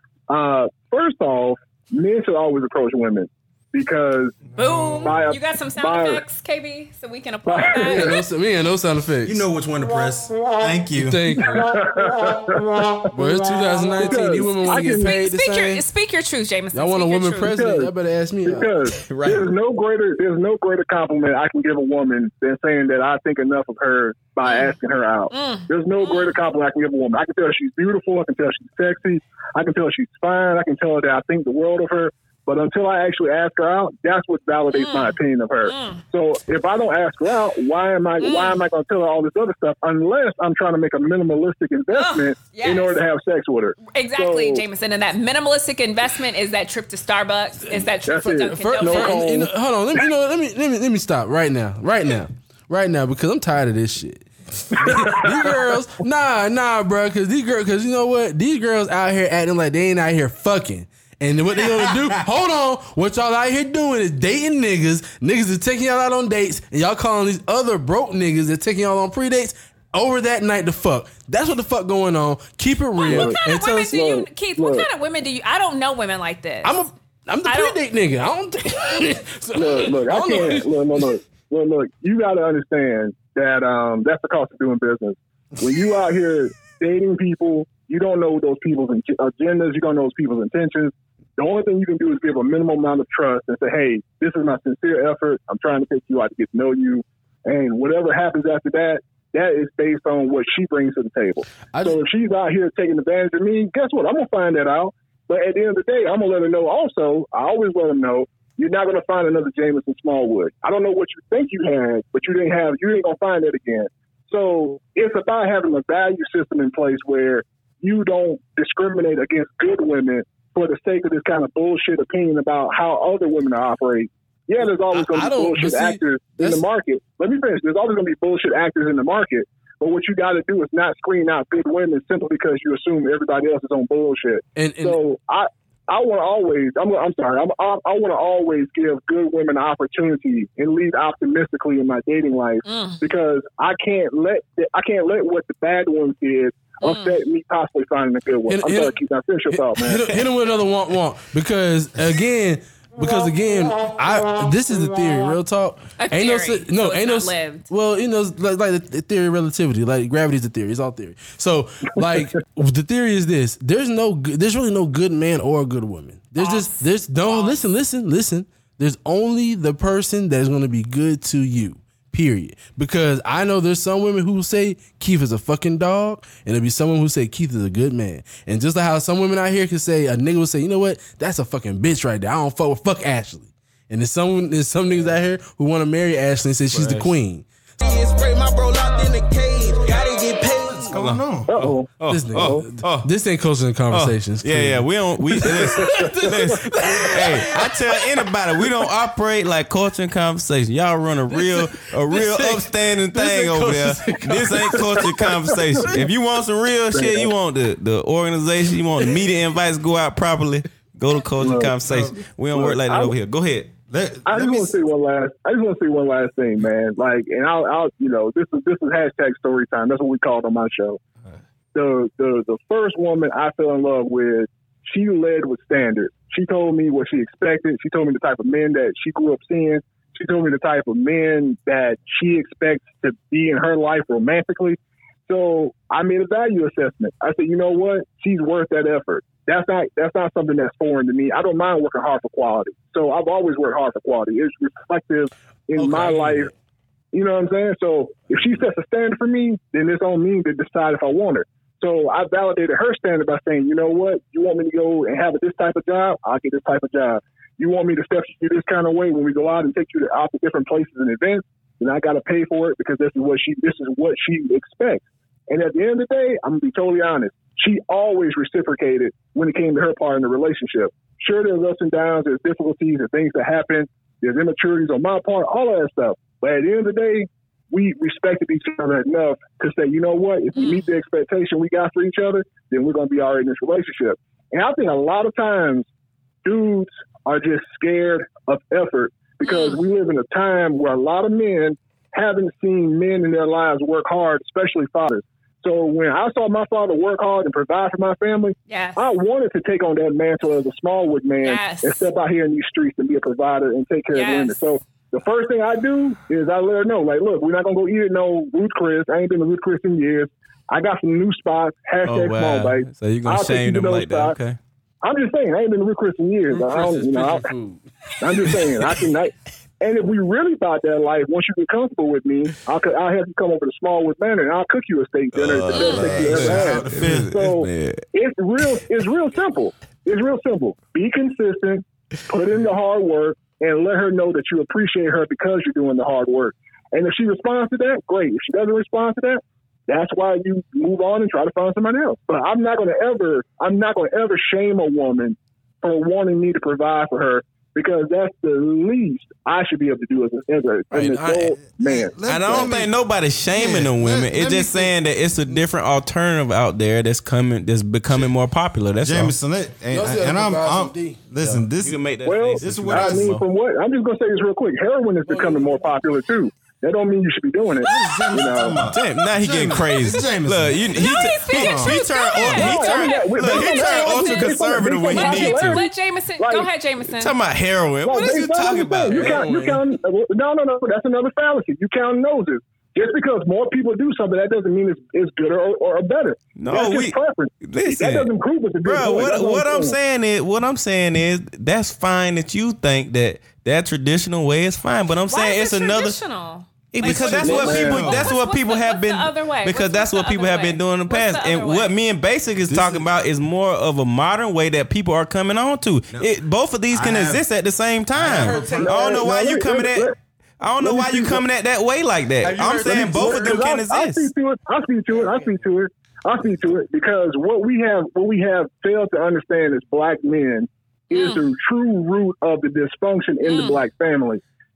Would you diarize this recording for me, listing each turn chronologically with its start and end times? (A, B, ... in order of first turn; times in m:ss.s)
0:00.3-0:04.4 A
0:04.5-0:05.2 B
0:04.6-0:08.2 C
0:05.0-0:06.2 A
0:07.5-0:08.2 A
0:07.7-0:09.4 D
0:09.2-0:11.4 B
0:11.0-0:11.8 D
0:11.4-0:13.1 A
0:13.1-0:15.8 D
0:14.0-0:15.1 A
0:14.6-0:17.6 C
0:16.7-0:18.7 D
0:17.4-0:17.9 A
0:18.4-0:44.6 A
0:19.0-0:19.5 E
0:24.4-0:24.8 C
0:25.3-0:26.4 C
0:34.7-0:36.0 C
0:38.2-0:38.6 C
0:41.9-0:43.0 C
0:43.8-0:49.2 C
0:48.0-0:49.5 A
0:48.2-1:13.9 D
0:54.8-0:55.4 A
1:13.0-1:16.8 C
1:13.1-1:14.9 A
1:16.6-1:21.1 D
1:17.4-1:17.8 C
1:19.5-2:30.0 A
1:41.7-1:42.0 D
2:04.6-2:06.6 D
2:14.6-2:15.0 D
2:22.6-2:23.0 C
2:26.8-2:27.2 C
2:28.5-2:29.0 D
2:29.5-3:11.0 D
2:36.0-2:37.7 C
2:46.4-2:47.6 C
3:06.7-3:07.1 E
3:10.6-3:11.5 B
3:11.0-3:13.1 E
3:11.5-3:12.6 A
3:12.1-3:18.8 D
3:13.9-3:33.7 E
3:15.8-3:16.3 A
3:21.3-3:26.0 D
3:26.9-3:27.3 A
3:31.4-3:31.8 A
3:31.8-3:32.1 B
3:32.5-3:33.1 A
3:33.9-3:34.8 B
3:34.2-3:41.0 A
3:41.7-4:06.5 A
4:05.8-4:06.5 D
4:07.1-4:45.9 A
4:40.5-4:40.8 C
4:46.4-5:14.4 A
4:49.4-4:49.8 C
4:58.7-4:59.0 C
5:01.4-5:02.0 C
5:04.1-5:04.6 C
5:12.0-5:14.6 E
5:15.0-5:17.5 A
5:16.5-5:17.8 D
5:18.2-5:52.7 A
5:25.3-5:28.0 E
5:25.7-5:26.1 C
5:25.8-5:27.3 B
5:50.9-5:51.4 D
5:51.7-5:52.9 B
5:52.2-5:59.3 E
5:53.5-5:54.9 B
5:59.0-6:03.4 B
5:59.9-6:01.7 D
6:01.8-6:03.4 E
6:02.2-6:08.9 A
6:05.2-6:05.9 D
6:07.8-6:12.7 B
6:08.9-6:15.8 E
6:08.9-6:09.2 C
6:10.9-6:14.6 C
6:12.6-6:15.9 A
6:15.1-6:17.3 C
6:16.4-6:16.7 A
6:17.2-6:19.5 E
6:18.0-6:30.0 A
6:19.1-6:19.8 D
6:26.6-6:28.3 E
6:28.8-6:36.2 E
6:35.3-6:41.9 C
6:36.9-6:54.3 E
6:37.0-6:38.3 B
6:37.5-6:37.9 A
6:42.7-6:43.0 B
6:46.9-6:47.4 B
6:48.2-6:49.0 B
6:48.2-6:49.0 D
6:48.7-6:50.1 A
6:50.8-6:51.4 A
6:52.4-6:53.7 D
6:52.9-7:04.4 A
6:55.1-6:55.5 D
7:01.1-7:01.4 C
7:03.4-7:03.8 C